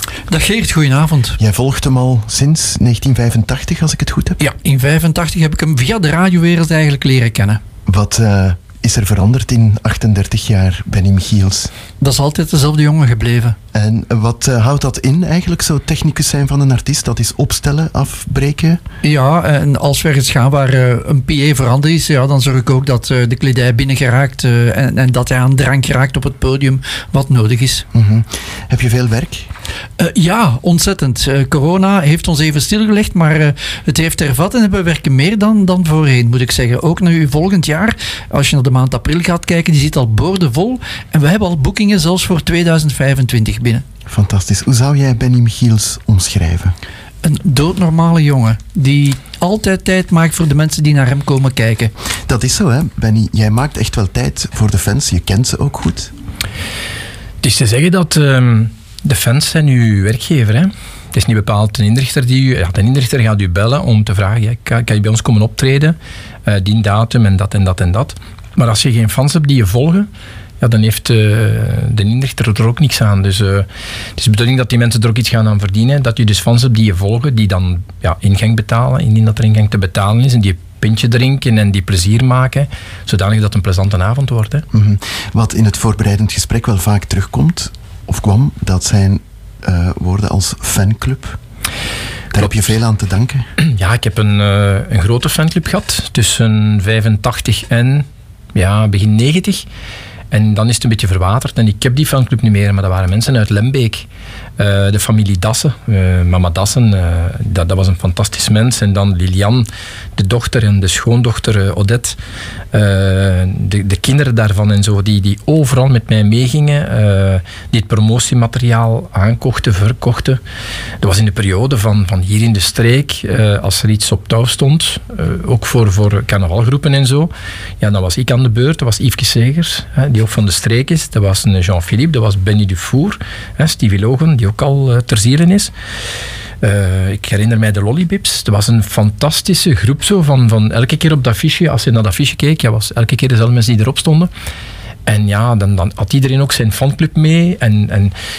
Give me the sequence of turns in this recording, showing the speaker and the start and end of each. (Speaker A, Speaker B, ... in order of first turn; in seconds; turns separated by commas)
Speaker A: 0.3-1.4, Speaker B: 1.4-4.4, Speaker A: 4.4-7.6, Speaker B: 7.9-11.7, Speaker A: 12.0-13.6, Speaker B: 13.7-18.8, Speaker A: 19.0-27.9, Speaker B: 27.9-29.5, Speaker A: 30.0-43.8, Speaker B: 44.1-46.8, Speaker A: 47.2-51.9, Speaker B: 52.3-56.1, Speaker C: 57.4-70.1, Speaker C: 70.6-84.7, Speaker B: 84.7-91.4, Speaker B: 92.3-93.5, Speaker C: 93.6-99.7, Speaker C: 100.3-104.1, Speaker C: 104.6-112.2, Speaker C: 112.7-120.4, Speaker C: 121.0-135.7, Speaker C: 136.6-144.3, Speaker C: 145.1-148.1